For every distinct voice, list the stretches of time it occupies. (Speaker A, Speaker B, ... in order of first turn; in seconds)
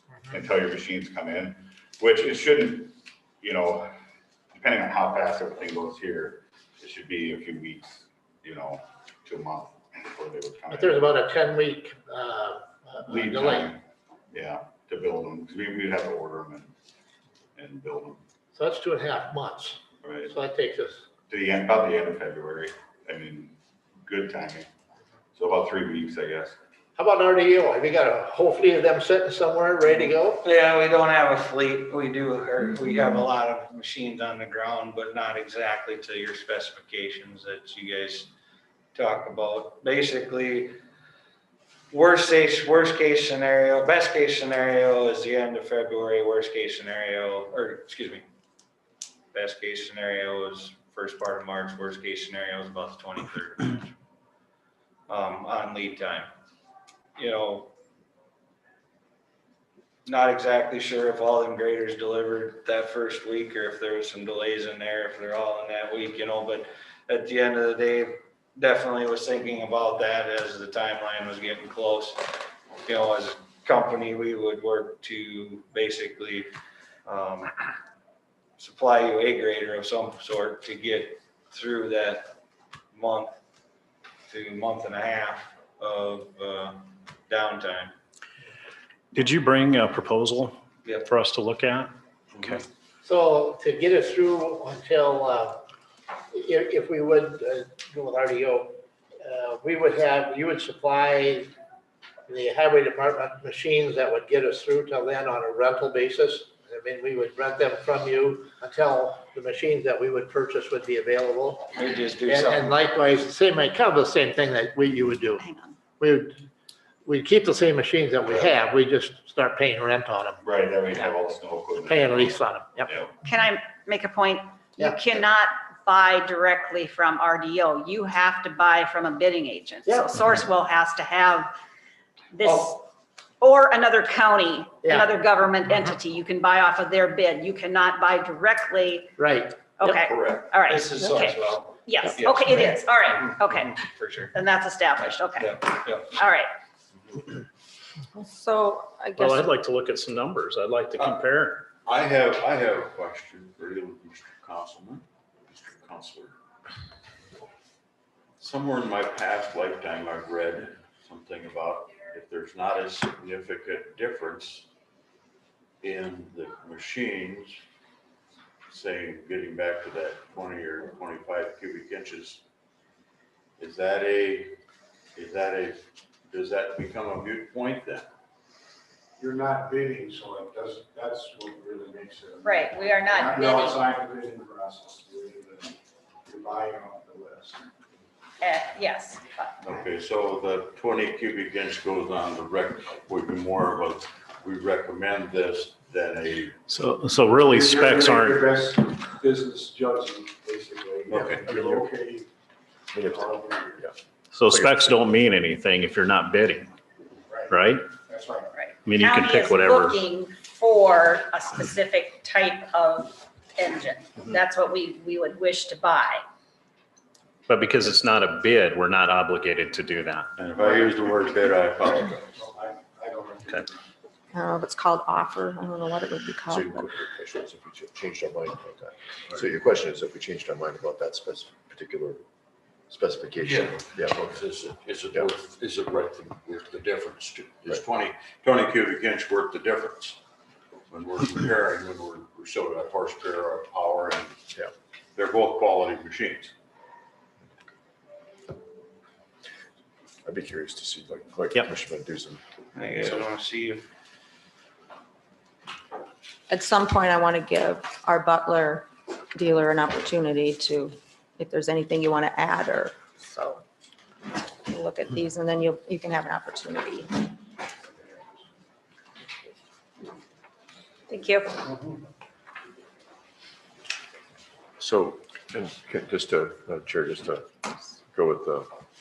Speaker A: 0.3-3.9, 4.5-11.1, 13.1-13.8, 14.3-16.7, 17.6-18.2, 20.0-20.3, 21.3-24.7, 25.4-26.6, 120.4-123.1
Speaker B: 10.7-13.7, 18.5-21.1, 27.0-30.4, 93.0-95.6, 96.3-101.5, 102.3-111.7, 112.3-115.4, 116.0-116.4, 117.0-120.4, 121.8-122.9, 134.8-135.1, 139.2-140.0
Speaker C: 30.4-38.3, 39.0-40.8, 41.9-48.2, 49.3-53.9, 55.1-56.3, 57.2-57.7, 60.1-72.2, 72.9-76.5, 77.1-77.5, 78.6-82.3, 83.0-83.3, 84.3-87.9, 90.8-91.1, 111.8-112.8, 132.4-132.7, 140.7-142.6, 143.6-144.3, 145.4-146.2, 252.8-253.8
Speaker D: 89.1-90.6, 91.1-91.9, 149.2-151.7, 196.7-198.4, 204.3-206.7, 207.5-207.9, 208.8-210.0, 217.5-220.3
Speaker E: 115.4-115.8, 123.2-131.5, 132.3-132.8, 133.4-139.2, 139.7-143.8, 144.3-146.5, 182.4-183.8, 188.4-189.6, 208.5-216.2, 271.1-271.6
Speaker F: 140.0-140.5, 151.8-156.4, 158.4-164.7, 165.8-167.6, 168.7-172.4, 173.6-174.6, 175.2-178.1, 189.6-196.6, 201.1-201.5, 220.4-222.3, 233.5-240.2, 240.9-244.5, 245.2-246.5
Speaker G: 148.2-149.4, 224.3-226.9, 256.5-263.6, 264.7-267.1
Speaker H: 179.2-185.7, 186.3-187.6, 197.5-202.3, 203.1-203.9, 208.1-208.5, 220.6-223.7
Speaker I: 201.3-201.9, 202.9-203.9, 204.5-204.9, 226.5-232.2, 232.9-234.5, 250.2-252.4, 274.8-277.5, 278.1-278.7